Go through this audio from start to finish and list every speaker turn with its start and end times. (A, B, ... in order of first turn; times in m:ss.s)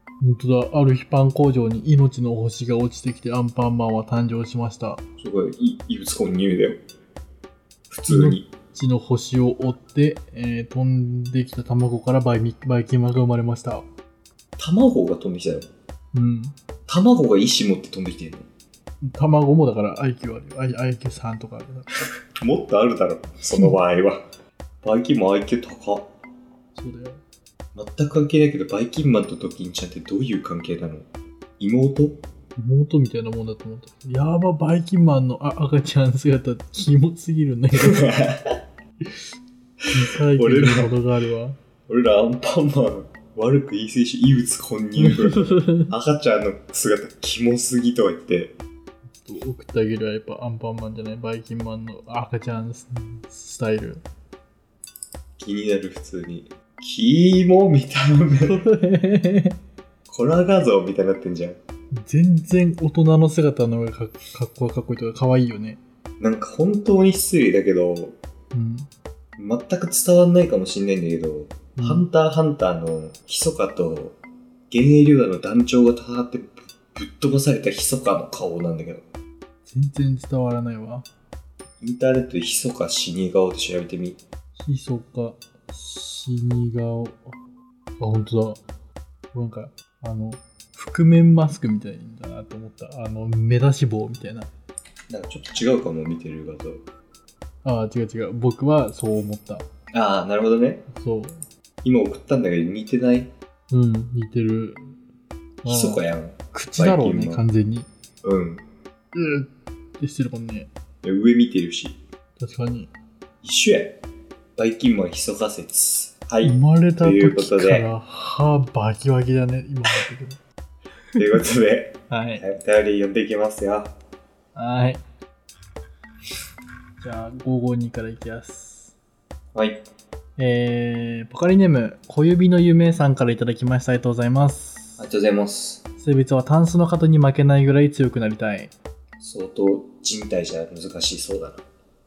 0:00.2-0:05.0 A
0:05.2-0:06.8 B
0:07.9-0:08.4 B
0:08.1-0:13.8 A
0:14.6-0:15.7 B
0:16.1-0:16.6 A
0:16.9-0:18.5 B
0:19.0-0:21.9 A
0:22.4-0:24.2 B
0:24.8-0:26.1 B
0:26.8-0:27.2 A
0:27.7-0:31.1 B
0:31.6-0:32.2 B
0:32.6-0:38.0 A
0:37.8-0:38.6 B
0:39.9-0:41.6 A
0:40.1-0:41.0 B
0:41.9-0:48.5 B
0:45.0-0:45.9 A
0:49.2-0:54.0 A
0:55.4-0:58.6 B
0:58.4-0:59.6 A
1:00.1-1:01.6 B
1:01.9-1:05.8 A
1:06.2-1:08.2 B
1:08.5-1:08.9 A
1:09.4-1:14.2 B
1:11.8-1:12.1 A
1:14.7-1:19.0 B
1:19.6-1:21.1 A
1:21.8-1:24.2 B
1:24.6-1:27.4 A
1:28.0-1:28.6 A
1:29.3-1:34.5 A
1:35.1-1:36.8 B
1:37.6-1:39.6 A
1:39.9-1:40.8 B
1:40.9-1:41.4 A
1:41.8-1:43.3 B
1:43.7-1:44.8 A
1:45.6-1:47.9 A
1:45.6-1:47.4 B
1:48.2-1:48.6 B
1:49.1-1:50.7 A
1:51.0-1:52.0 B
1:52.4-1:52.9 A
1:53.4-1:54.0 B
1:54.6-1:57.9 B
1:56.4-2:00.4 A
2:01.2-2:03.9 B
2:02.1-2:02.4 A
2:04.5-2:05.0 A
2:07.0-2:08.9 A
2:09.5-2:09.8 B
2:10.4-2:15.0 A
2:15.0-2:15.8 B
2:16.0-2:18.7 A
2:19.2-2:21.6 B